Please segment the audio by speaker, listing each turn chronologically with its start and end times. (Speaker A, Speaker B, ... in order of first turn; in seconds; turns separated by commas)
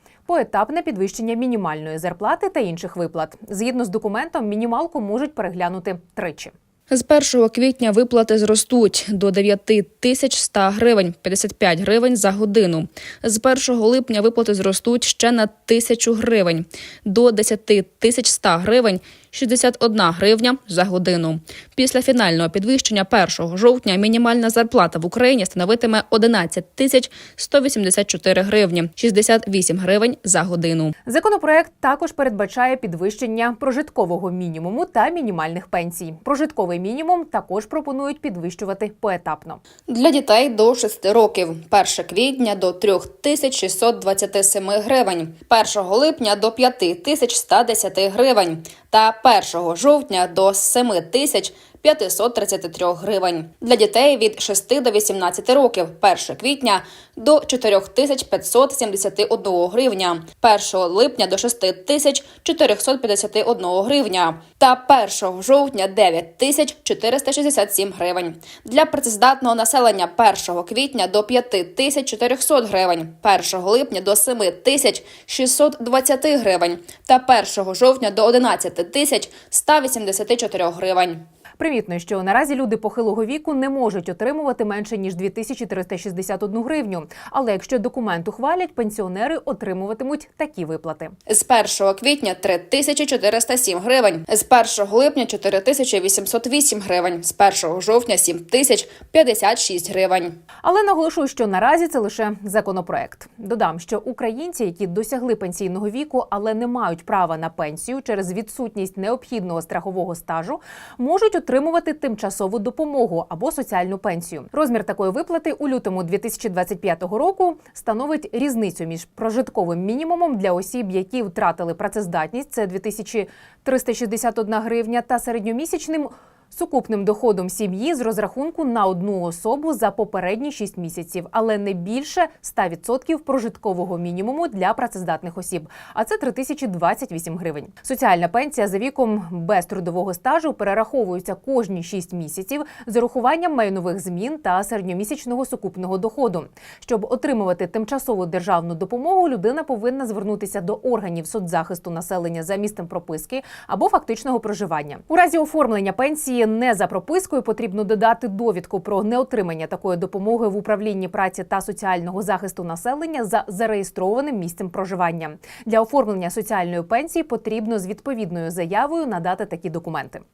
Speaker A: 0.3-6.5, Speaker B: 6.9-30.9, Speaker A: 31.1-39.6, Speaker B: 39.9-81.2, Speaker A: 81.6-91.2, Speaker B: 91.3-100.4, Speaker A: 100.6-170.2